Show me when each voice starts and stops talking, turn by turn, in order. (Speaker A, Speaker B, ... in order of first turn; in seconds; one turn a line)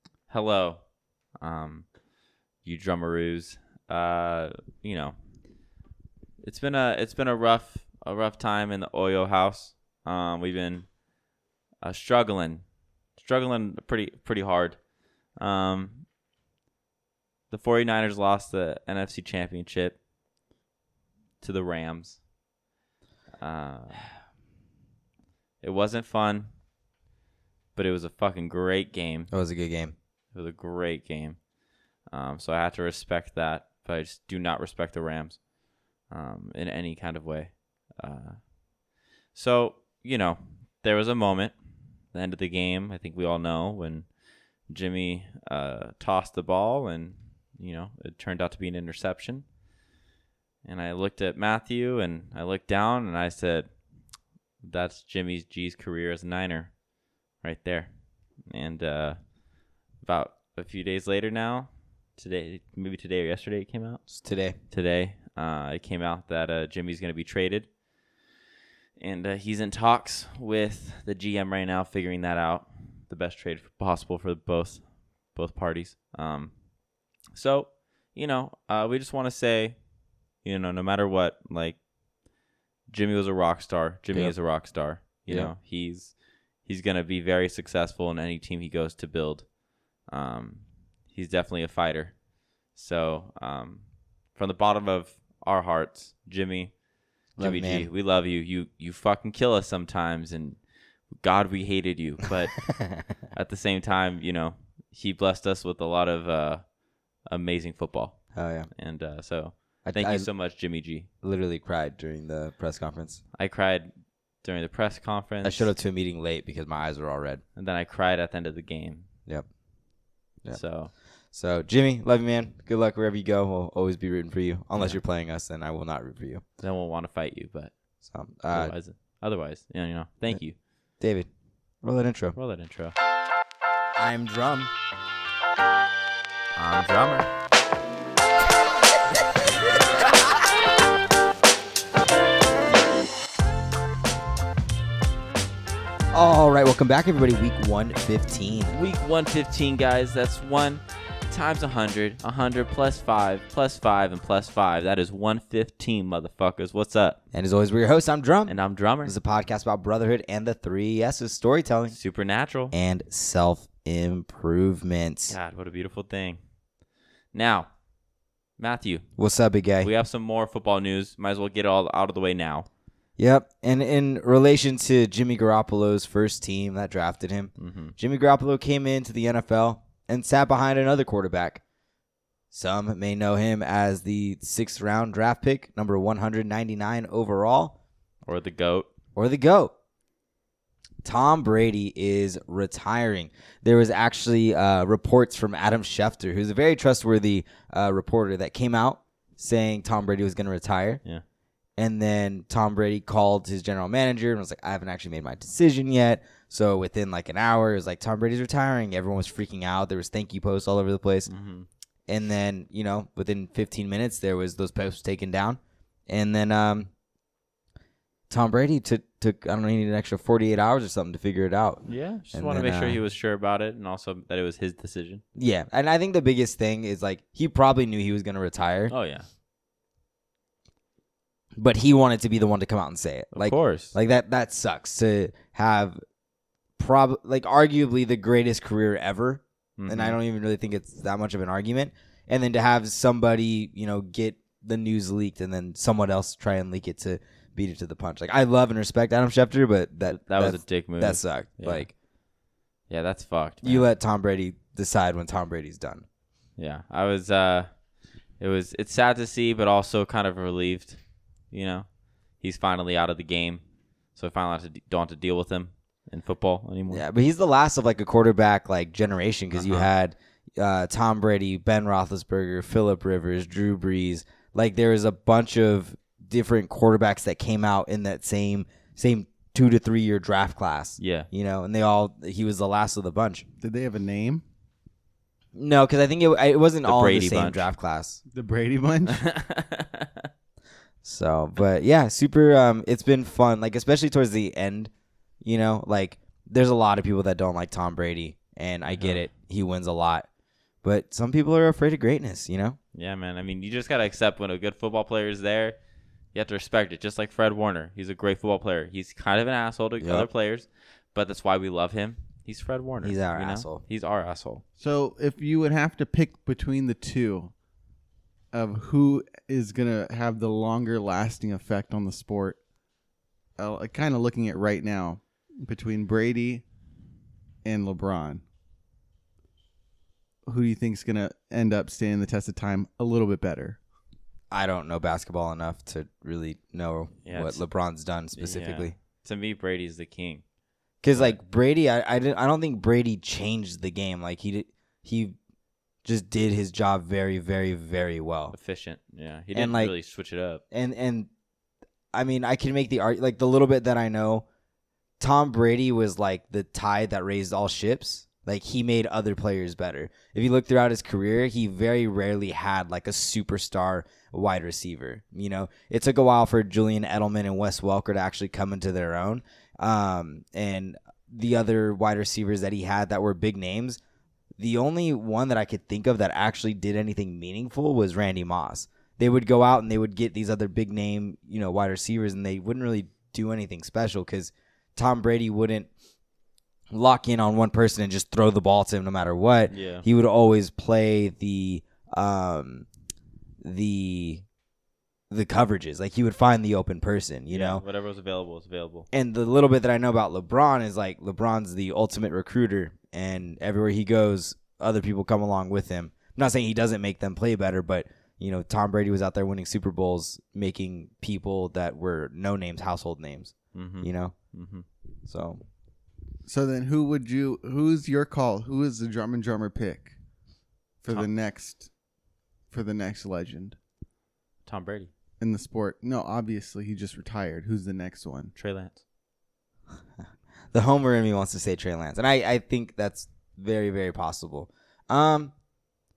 Speaker A: 0.3-0.8
Speaker A: 1.4-1.9
Speaker A: 2.6-5.2
Speaker A: 6.4-10.9
Speaker A: 11.8-12.6
Speaker A: 13.2-14.8
Speaker A: 15.3-16.1
Speaker A: 17.5-20.0
Speaker A: 21.4-22.2
Speaker A: 23.4-24.1
Speaker A: 25.6-26.5
Speaker A: 27.7-29.3
Speaker B: 29.3-29.9
Speaker A: 30.3-31.4
Speaker A: 32.1-35.4
Speaker A: 36.1-38.5
Speaker A: 39.3-41.6
Speaker A: 42.1-44.1
Speaker A: 44.6-49.5
Speaker A: 50.6-53.7
Speaker A: 54.6-56.8
Speaker A: 57.4-59.3
Speaker A: 60.0-64.0
Speaker B: 64.1-64.5
Speaker A: 64.7-67.7
Speaker A: 69.0-76.7
Speaker A: 77.3-79.8
Speaker A: 80.4-81.8
Speaker A: 82.9-92.2
Speaker B: 85.3-85.5
Speaker A: 92.7-96.7
Speaker A: 97.3-100.6
Speaker B: 97.4-97.9
Speaker A: 101.1-102.6
Speaker B: 102.6-103.0
Speaker A: 103.3-111.1
Speaker B: 108.3-108.7
Speaker B: 109.8-110.3
Speaker B: 111.2-113.2
Speaker A: 113.3-115.7
Speaker B: 115.4-117.4
Speaker A: 117.5-119.1
Speaker A: 120.5-120.9
Speaker B: 121.3-126.4
Speaker A: 124.8-125.0
Speaker A: 126.6-127.7
Speaker B: 128.0-128.7
Speaker A: 128.5-130.6
Speaker B: 131.0-131.3
Speaker B: 131.8-132.3
Speaker A: 132.3-132.9
Speaker B: 133.9-134.7
Speaker A: 136.5-137.3
Speaker B: 146.1-148.8
Speaker A: 148.7-157.2
Speaker B: 157.3-161.9
Speaker A: 158.5-159.2
Speaker A: 161.9-162.7
Speaker B: 162.7-165.3
Speaker A: 165.3-166.4
Speaker A: 167.3-167.7
Speaker A: 168.6-169.1
Speaker B: 169.2-169.9
Speaker A: 169.8-172.7
Speaker B: 173.2-181.6
Speaker A: 177.6-177.9
Speaker B: 182.5-187.8
Speaker A: 188.2-188.9
Speaker B: 189.2-189.7
Speaker B: 191.0-201.0
Speaker B: 201.8-211.3
Speaker A: 211.3-211.7
Speaker B: 212.1-216.9
Speaker B: 218.3-223.0
Speaker A: 221.9-225.2
Speaker B: 225.3-228.9
Speaker A: 228.9-229.3
Speaker B: 231.6-236.0
Speaker A: 233.3-233.9
Speaker B: 236.8-251.9
Speaker A: 239.8-240.2
Speaker A: 250.1-251.9
Speaker A: 252.9-253.9
Speaker B: 253.6-256.0
Speaker A: 256.6-257.7
Speaker A: 258.4-261.0
Speaker A: 261.5-261.9
Speaker A: 262.4-263.6
Speaker A: 264.1-267.0
Speaker B: 266.9-283.4
Speaker A: 269.5-269.9
Speaker A: 281.0-281.3
Speaker C: 283.6-284.4
Speaker B: 285.6-288.2
Speaker A: 286.8-287.7
Speaker C: 288.3-289.2
Speaker A: 289.1-290.3
Speaker B: 291.0-294.9
Speaker B: 295.4-300.3
Speaker A: 298.9-299.3
Speaker B: 300.8-302.8
Speaker A: 302.9-305.8
Speaker A: 306.3-314.6
Speaker B: 310.0-310.3
Speaker B: 313.0-313.8
Speaker C: 314.8-317.5
Speaker C: 318.5-322.6
Speaker C: 323.6-326.6
Speaker C: 327.6-328.4
Speaker C: 330.5-333.8
Speaker B: 334.5-338.9
Speaker A: 337.2-337.6
Speaker A: 338.4-340.4
Speaker B: 341.0-345.4
Speaker B: 346.0-348.5
Speaker A: 348.5-350.6
Speaker B: 349.5-349.9
Speaker B: 350.7-351.3
Speaker B: 352.1-354.4
Speaker B: 355.2-374.0
Speaker B: 374.6-385.9
Speaker B: 386.9-392.9
Speaker A: 389.7-390.0
Speaker B: 393.6-394.4
Speaker B: 395.3-397.8
Speaker A: 397.5-399.1
Speaker B: 399.1-414.3
Speaker A: 413.7-414.8
Speaker B: 415.3-415.6
Speaker C: 416.4-420.1
Speaker C: 421.0-421.9
Speaker C: 422.7-423.8
Speaker A: 424.6-425.1
Speaker C: 425.4-428.5
Speaker A: 428.6-429.0
Speaker B: 430.7-435.5